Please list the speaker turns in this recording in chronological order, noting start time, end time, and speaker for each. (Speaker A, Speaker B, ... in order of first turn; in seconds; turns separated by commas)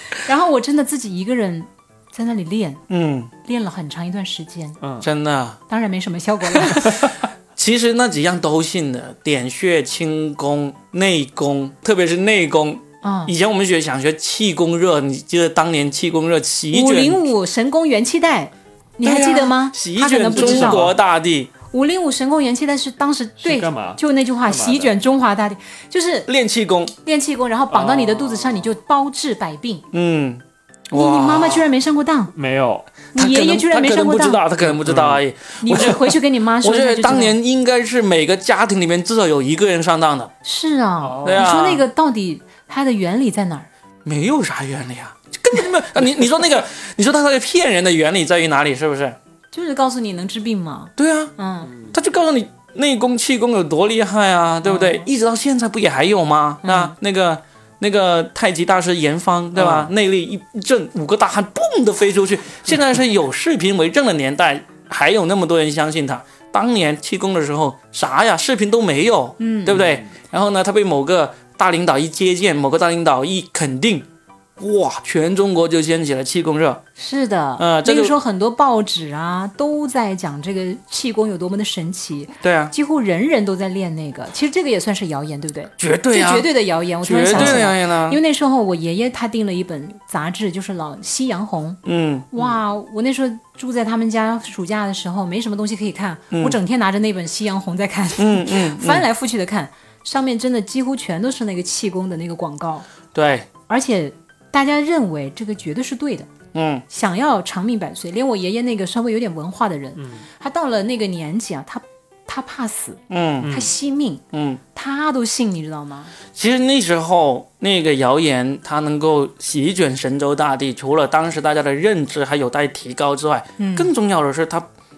Speaker A: 0.2-2.8, Speaker B: 2.9-3.3, Speaker A: 3.4-4.8, Speaker C: 4.8-5.1, Speaker B: 5.0-5.6, Speaker A: 5.7-6.9, Speaker B: 6.7-17.2, Speaker A: 13.0-13.3, Speaker A: 16.7-20.9, Speaker B: 19.0-21.5, Speaker C: 20.3-20.9, Speaker A: 21.7-26.3, Speaker C: 23.4-24.9, Speaker B: 26.3-26.9, Speaker A: 27.0-29.8, Speaker C: 27.7-28.7, Speaker B: 29.9-31.6, Speaker A: 30.9-32.3, Speaker C: 32.3-32.9, Speaker A: 33.1-34.4, Speaker B: 33.1-40.3, Speaker C: 34.6-35.2, Speaker A: 35.6-37.4, Speaker A: 40.4-43.7, Speaker C: 41.0-41.5, Speaker B: 41.2-41.8, Speaker B: 44.0-49.2, Speaker A: 49.5-51.7, Speaker B: 51.0-51.3, Speaker C: 51.7-51.9, Speaker B: 51.9-74.0, Speaker A: 54.6-55.0, Speaker A: 56.6-56.9, Speaker C: 59.5-59.9, Speaker A: 69.4-69.8, Speaker C: 69.7-70.0, Speaker B: 74.6-76.8, Speaker A: 77.0-91.8, Speaker B: 77.6-78.1, Speaker B: 82.4-82.7, Speaker B: 85.8-86.5, Speaker B: 87.0-88.2, Speaker C: 87.3-87.7, Speaker B: 91.8-92.5, Speaker A: 92.3-102.8, Speaker B: 96.3-96.6, Speaker B: 98.2-99.0, Speaker B: 103.1-103.5, Speaker A: 103.7-106.3, Speaker B: 106.5-106.8, Speaker A: 106.9-114.2, Speaker C: 110.0-110.2, Speaker B: 113.1-113.5, Speaker C: 113.4-113.7, Speaker B: 114.3-114.6, Speaker A: 114.7-116.1, Speaker B: 116.3-124.6, Speaker A: 123.6-123.9